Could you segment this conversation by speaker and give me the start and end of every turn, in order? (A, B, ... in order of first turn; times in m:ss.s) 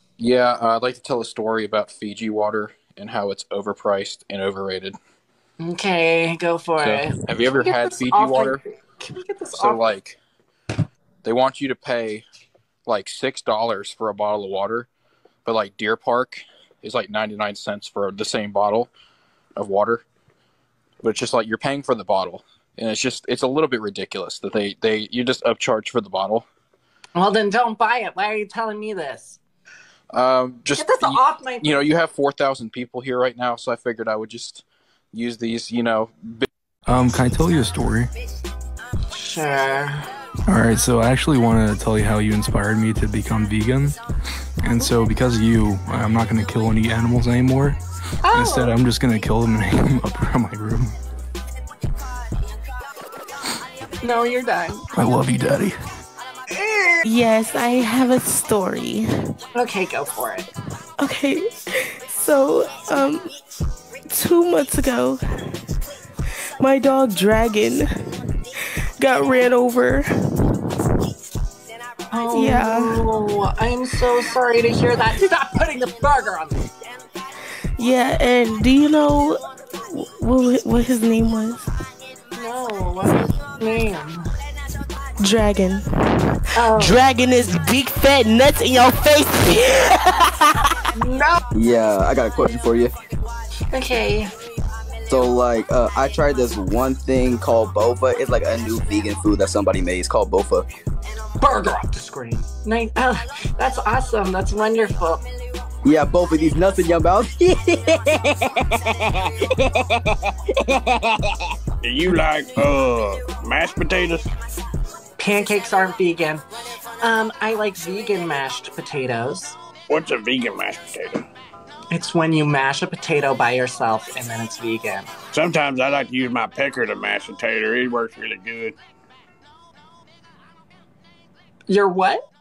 0:00.2-0:05.0 A
0:05.6-0:09.9 B
0:06.8-0:08.6 A
0:09.5-0:10.2 A
0:11.2-0:12.2 A
0:12.9-0:14.9 A
0:15.4-0:18.9 A
0:19.6-0:20.0 A
0:21.0-0:26.5 A
0:27.2-0:29.4 B
0:30.1-0:36.5 A
0:30.7-0:31.8 B
0:36.9-0:38.1 C
0:39.1-0:40.1 B
0:40.5-0:44.0 C
0:44.6-0:50.9 C
0:48.2-0:48.7 B
0:54.0-0:54.8 B
0:54.9-0:55.8 C
0:56.6-0:57.0 B
0:57.0-0:59.3 D
0:59.6-1:00.5 B
1:01.0-1:01.5 D
1:02.1-1:03.3 D
1:04.1-1:05.6 D
1:06.6-1:08.2 D
1:09.0-1:10.1 D
1:12.1-1:16.6 B
1:12.3-1:13.0 D
1:17.8-1:21.7 D
1:22.4-1:24.2 B
1:25.2-1:30.0 D
1:26.6-1:27.0 B
1:31.6-1:32.9 E
1:33.7-1:34.3 B
1:35.1-1:40.7 E
1:41.4-1:45.2 B
1:45.8-1:49.0 E
1:51.8-1:54.2 F
1:55.2-1:56.4 B
1:57.0-1:59.6 B
1:59.9-2:01.2 F
2:01.9-2:05.1 B
2:05.3-2:08.8 F
2:11.7-2:12.2 B